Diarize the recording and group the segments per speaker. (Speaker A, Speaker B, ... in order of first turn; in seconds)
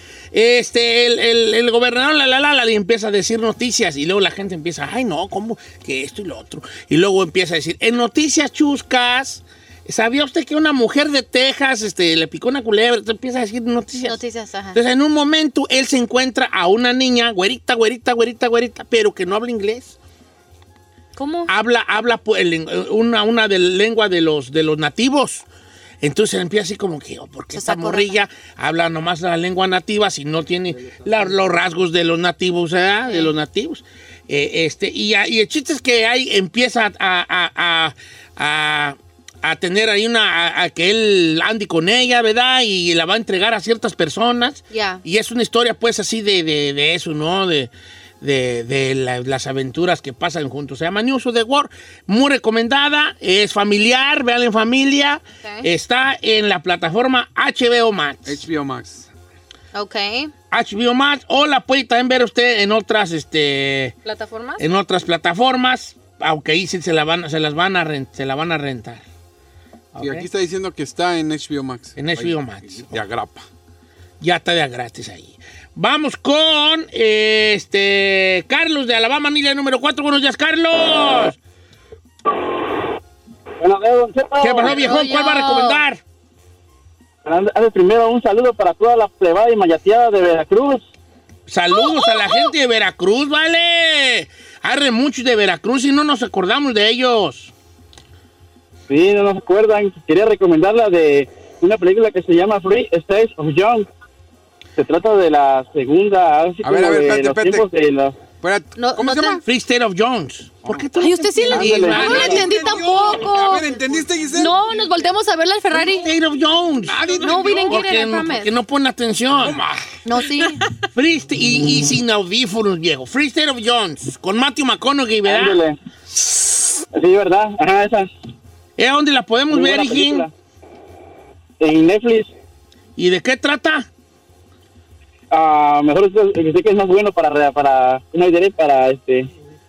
Speaker A: 0.3-14.2, 14.7-19.9, 21.5-25.4, 26.0-58.4, 60.5-64.0, 64.6-69.0, 69.9-70.3, 72.0-72.9, 74.2-81.4, 84.4-86.0, 91.5-97.5, 109.4-112.7, 115.7-119.6, 120.9-125.6, 128.8-130.3, 133.0-133.9
Speaker B: 14.1-14.8, 21.1-21.5, 27.5-28.1, 33.1-33.3, 44.7-45.0, 55.4-55.7, 59.7-60.3, 64.0-64.7, 84.7-85.8, 91.7-92.5, 108.8-109.4, 111.0-113.7, 114.3-116.1, 117.2-118.5, 120.0-120.6
Speaker C: 58.2-59.1, 70.0-73.4, 106.6-107.7, 108.4-109.4, 111.9-114.6, 116.9-117.8, 119.4-119.9
Speaker D: 83.6-84.8, 87.2-90.8, 98.9-103.9, 104.8-108.2, 111.5-112.4, 125.2-125.8, 126.9-128.1, 129.5-130.3, 131.6-132.3, 135.3-139.3